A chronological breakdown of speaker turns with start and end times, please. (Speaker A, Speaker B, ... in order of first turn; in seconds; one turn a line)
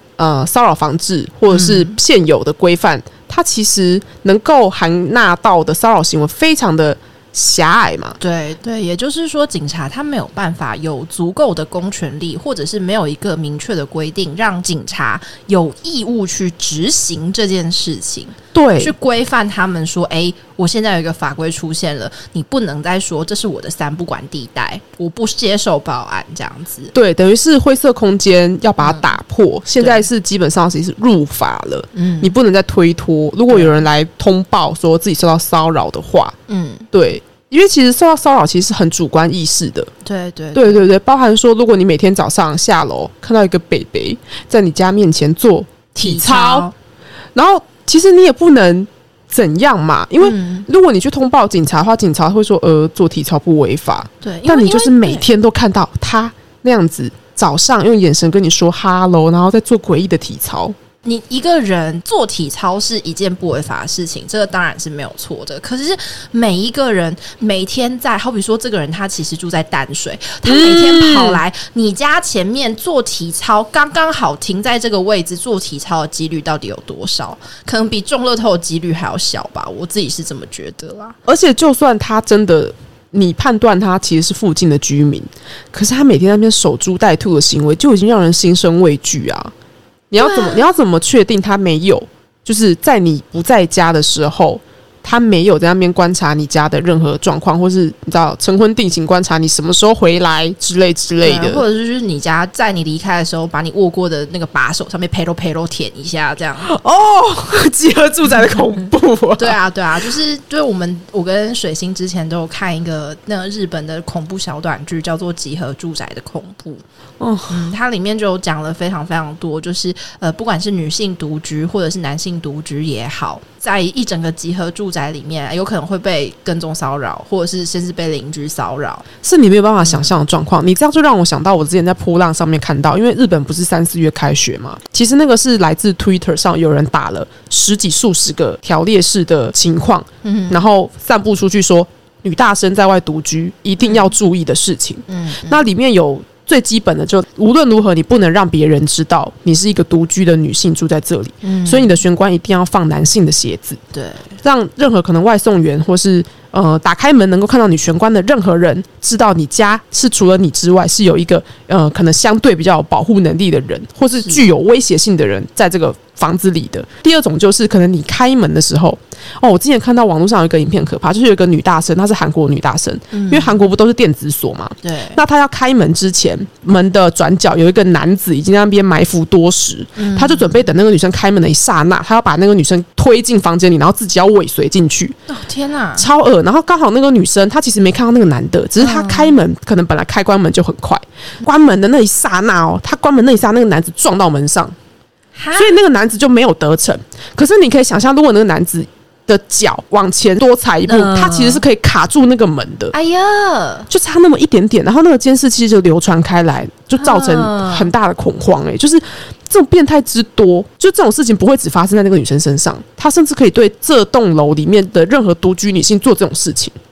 Speaker A: 0.2-8.2
Speaker B: 1.5-2.0
Speaker B: 8.2-26.9
Speaker A: 18.5-18.9
Speaker A: 26.9-36.4
Speaker B: 28.8-29.1
Speaker B: 29.8-30.1
Speaker B: 31.9-32.3
Speaker B: 33.5-33.8
Speaker B: 36.5-36.9
Speaker A: 36.9-39.9
Speaker B: 40.0-40.9
Speaker A: 40.5-46.7
Speaker B: 46.0-46.7
Speaker A: 47.4-60.8
Speaker B: 50.2-50.7
Speaker B: 54.2-55.3
Speaker B: 61.0-81.2
Speaker A: 70.5-71.4
Speaker A: 81.3-89.5
Speaker A: 90.1-101.6
Speaker B: 90.2-90.7
Speaker B: 101.2-106.7
Speaker A: 106.6-109.6
Speaker B: 109.4-116.8
Speaker A: 117.2-117.7
Speaker B: 117.5-129.1
Speaker A: 129.2-153.8
Speaker B: 129.8-130.1
Speaker B: 140.2-140.6
Speaker B: 143.8-144.1
Speaker B: 145.1-145.7
Speaker B: 151.4-152.0
Speaker B: 153.9-154.3
Speaker A: 154.4-185.2
Speaker B: 164.1-164.5
Speaker B: 173.1-173.6
Speaker B: 174.8-175.2
Speaker B: 180.0-180.7
Speaker B: 185.3-186.1
Speaker A: 186.0-194.8
Speaker B: 188.8-189.4
Speaker B: 195.3-195.8
Speaker A: 195.6-202.9
Speaker B: 200.9-201.7
Speaker B: 202.9-203.9
Speaker A: 203.9-216.7
Speaker B: 207.0-207.9